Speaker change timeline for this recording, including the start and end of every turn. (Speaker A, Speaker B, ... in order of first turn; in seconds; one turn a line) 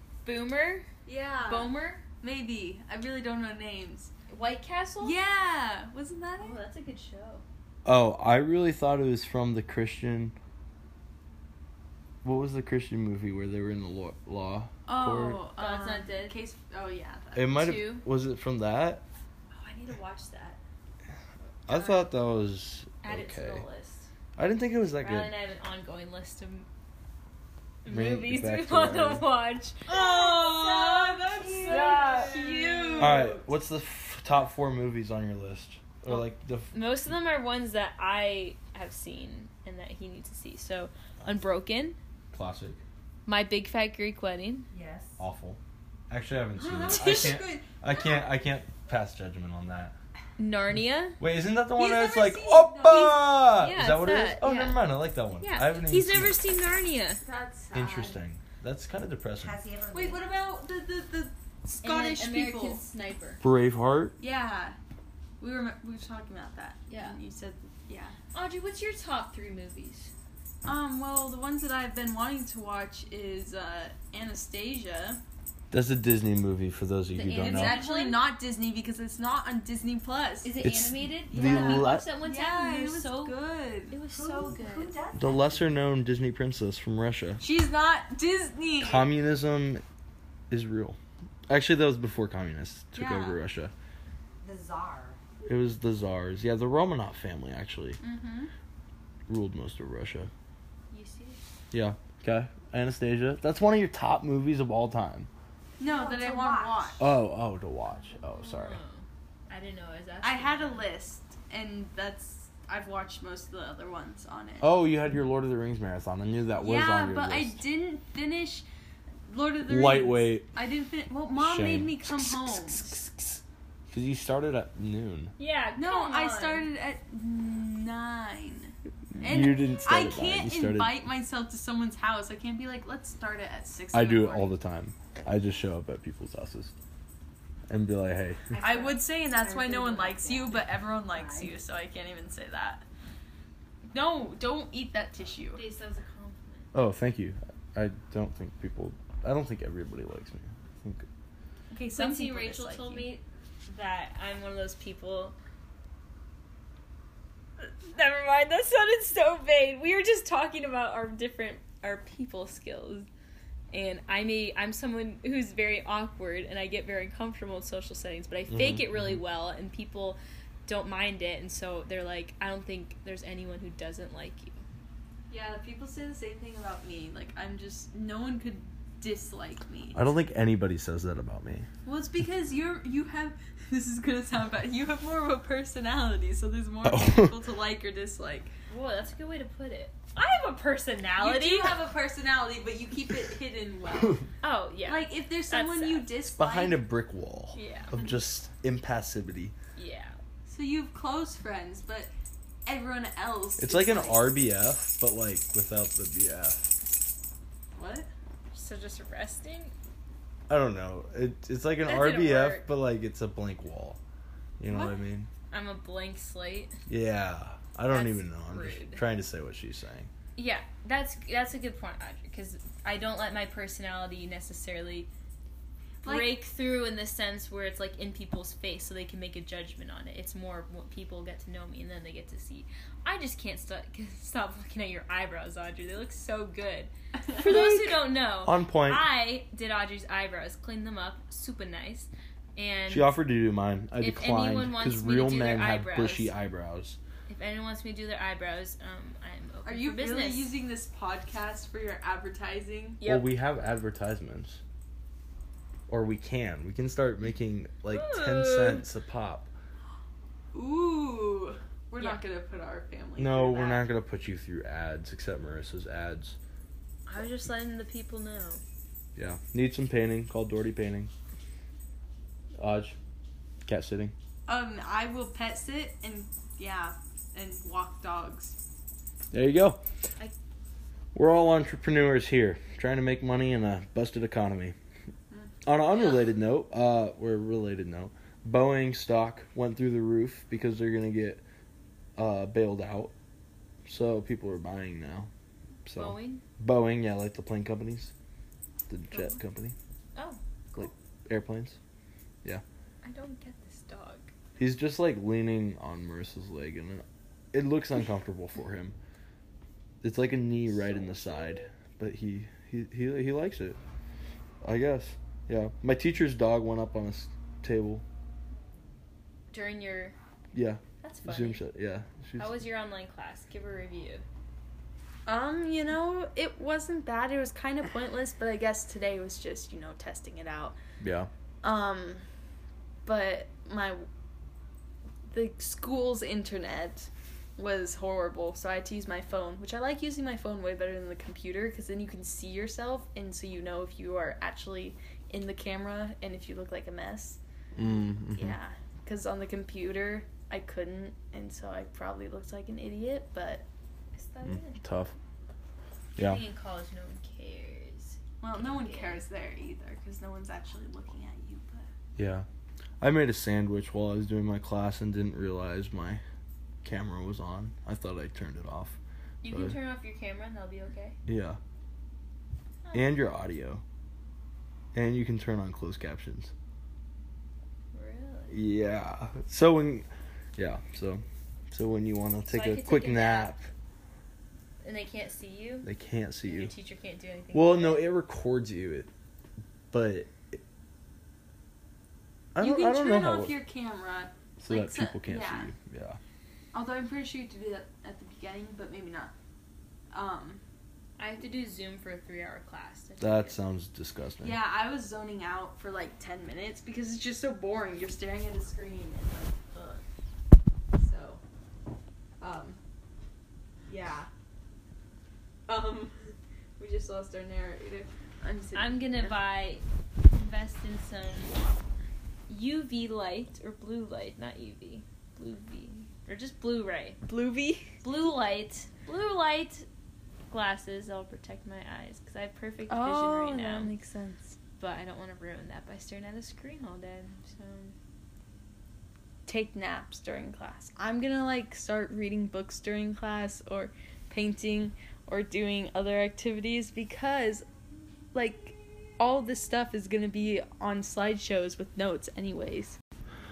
Speaker A: 0.2-0.9
Speaker B: 1.1-4.1
Speaker A: 1.4-2.0
Speaker A: 4.3-5.2
Speaker B: 5.0-6.5
Speaker A: 6.4-7.4
Speaker C: 7.8-10.3
Speaker C: 12.2-15.4
Speaker B: 14.8-17.6
Speaker A: 15.6-16.4
Speaker C: 17.3-19.0
Speaker A: 17.5-18.0
Speaker A: 19.5-20.6
Speaker C: 21.7-23.6
Speaker A: 23.0-24.1
Speaker C: 24.4-25.3
Speaker A: 25.0-26.6
Speaker A: 27.8-29.9
Speaker C: 27.9-29.2
Speaker B: 29.9-33.4
Speaker D: 29.9-32.5
Speaker A: 30.7-33.3
Speaker C: 33.0-36.7
Speaker A: 36.1-42.0
Speaker C: 42.3-42.8
Speaker A: 43.2-44.7
Speaker D: 44.7-45.2
Speaker C: 45.2-45.6
Speaker C: 46.1-49.9
Speaker B: 46.5-48.0
Speaker A: 50.4-51.2
Speaker C: 51.2-56.4
Speaker B: 51.8-53.2
Speaker A: 52.9-54.8
Speaker A: 55.4-57.2
Speaker B: 57.2-58.2
Speaker C: 57.7-59.6
Speaker D: 59.4-60.2
Speaker B: 59.9-62.8
Speaker A: 61.8-63.4
Speaker C: 63.4-64.2
Speaker B: 64.2-64.8
Speaker B: 65.4-68.1
Speaker A: 66.9-67.2
Speaker A: 68.3-70.1
Speaker B: 70.6-75.2
Speaker C: 75.7-77.8
Speaker A: 77.1-78.2
Speaker B: 77.4-80.6
Speaker A: 80.4-83.3
Speaker C: 80.6-82.0
Speaker B: 81.3-84.0
Speaker A: 83.9-85.0
Speaker D: 84.1-85.7
Speaker C: 85.1-87.4
Speaker B: 87.4-89.0
Speaker C: 88.8-89.8
Speaker C: 90.5-93.7
Speaker B: 92.9-93.4
Speaker D: 94.4-95.2
Speaker C: 95.4-98.0
Speaker B: 98.0-98.5
Speaker C: 99.3-100.3
Speaker A: 100.9-101.4
Speaker C: 101.7-105.3
Speaker B: 105.8-107.1
Speaker D: 105.8-107.0
Speaker C: 107.0-108.8
Speaker A: 108.3-110.8
Speaker B: 110.2-114.7
Speaker C: 114.6-117.6
Speaker B: 116.6-118.7
Speaker B: 119.3-123.0
Speaker C: 119.7-120.5
Speaker C: 121.3-125.3
Speaker A: 125.4-126.7
Speaker B: 125.8-134.5
Speaker C: 129.2-131.0
Speaker C: 133.9-136.7
Speaker C: 137.7-138.5
Speaker D: 138.5-141.5
Speaker B: 138.6-142.8
Speaker B: 143.9-145.6
Speaker A: 145.5-146.7
Speaker C: 146.7-151.1
Speaker B: 151.7-153.1
Speaker A: 151.9-155.3
Speaker A: 157.6-163.1
Speaker A: 163.7-174.6
Speaker C: 168.5-169.2
Speaker B: 175.3-180.1
Speaker C: 179.9-181.7
Speaker B: 181.8-188.5
Speaker C: 186.8-187.3
Speaker A: 188.7-191.8
Speaker B: 191.2-194.3
Speaker A: 194.4-196.1
Speaker B: 194.8-196.8
Speaker C: 196.4-199.5
Speaker A: 197.5-197.9
Speaker A: 199.8-200.2
Speaker B: 200.4-202.1
Speaker B: 202.7-204.3
Speaker C: 203.6-206.7
Speaker B: 207.7-208.1
Speaker A: 208.5-209.7
Speaker C: 210.5-214.0
Speaker A: 211.8-212.7
Speaker C: 214.6-215.3
Speaker B: 214.7-215.0
Speaker A: 215.5-216.7
Speaker C: 216.9-220.1
Speaker A: 217.9-219.0
Speaker A: 220.3-225.1
Speaker B: 226.0-226.3
Speaker A: 226.0-243.1
Speaker C: 237.4-239.1
Speaker C: 242.9-247.0
Speaker A: 244.0-246.3
Speaker A: 247.3-250.5
Speaker B: 249.6-253.0
Speaker A: 253.0-253.3
Speaker C: 253.0-254.6
Speaker C: 255.9-259.5
Speaker A: 257.9-258.8
Speaker B: 260.5-263.9
Speaker C: 263.2-266.4
Speaker A: 267.1-268.6
Speaker C: 269.1-271.1
Speaker C: 272.6-273.0
Speaker C: 273.6-274.1
Speaker B: 274.5-278.6
Speaker C: 279.3-279.8
Speaker C: 281.1-284.7
Speaker B: 285.3-285.6
Speaker C: 285.6-291.4
Speaker C: 292.2-293.1
Speaker C: 293.9-295.3
Speaker C: 295.9-298.1
Speaker A: 295.9-296.4
Speaker C: 298.9-299.7
Speaker A: 299.1-299.4
Speaker A: 300.1-300.9
Speaker C: 300.7-301.8
Speaker A: 303.0-304.3
Speaker C: 304.6-308.9
Speaker C: 310.0-313.8
Speaker C: 314.6-318.0
Speaker A: 319.5-320.1
Speaker C: 320.5-322.5
Speaker A: 321.0-321.6
Speaker A: 322.4-324.2
Speaker B: 325.2-330.8
Speaker C: 331.0-331.3
Speaker B: 331.6-332.2
Speaker B: 333.1-334.0
Speaker B: 335.3-347.4
Speaker C: 347.8-348.6
Speaker B: 348.2-353.6
Speaker A: 354.1-354.8
Speaker C: 354.4-355.1
Speaker A: 356.2-359.2
Speaker B: 358.4-361.9
Speaker C: 362.2-362.4
Speaker C: 363.0-366.2
Speaker C: 366.8-369.8
Speaker A: 369.4-371.2
Speaker C: 371.3-371.6
Speaker A: 372.9-373.3
Speaker C: 372.9-373.8
Speaker C: 374.9-376.5
Speaker A: 377.9-378.6
Speaker C: 378.5-383.7
Speaker A: 382.5-383.5
Speaker A: 384.8-385.9
Speaker C: 385.8-386.7
Speaker A: 386.4-388.1
Speaker C: 387.5-389.1
Speaker C: 389.9-390.6
Speaker C: 392.5-393.5
Speaker B: 392.6-395.7
Speaker C: 394.6-396.2
Speaker B: 396.7-399.3
Speaker B: 400.1-400.6
Speaker A: 401.2-403.6
Speaker C: 403.2-404.6
Speaker B: 404.4-410.0
Speaker B: 410.9-411.4
Speaker B: 412.4-412.8
Speaker B: 413.9-414.3
Speaker B: 415.7-419.4
Speaker A: 418.7-421.5
Speaker A: 422.5-427.2
Speaker B: 427.3-427.9
Speaker A: 428.0-429.9
Speaker A: 430.5-433.9
Speaker B: 432.9-434.6
Speaker A: 434.8-437.9
Speaker B: 439.5-447.6
Speaker B: 448.3-453.0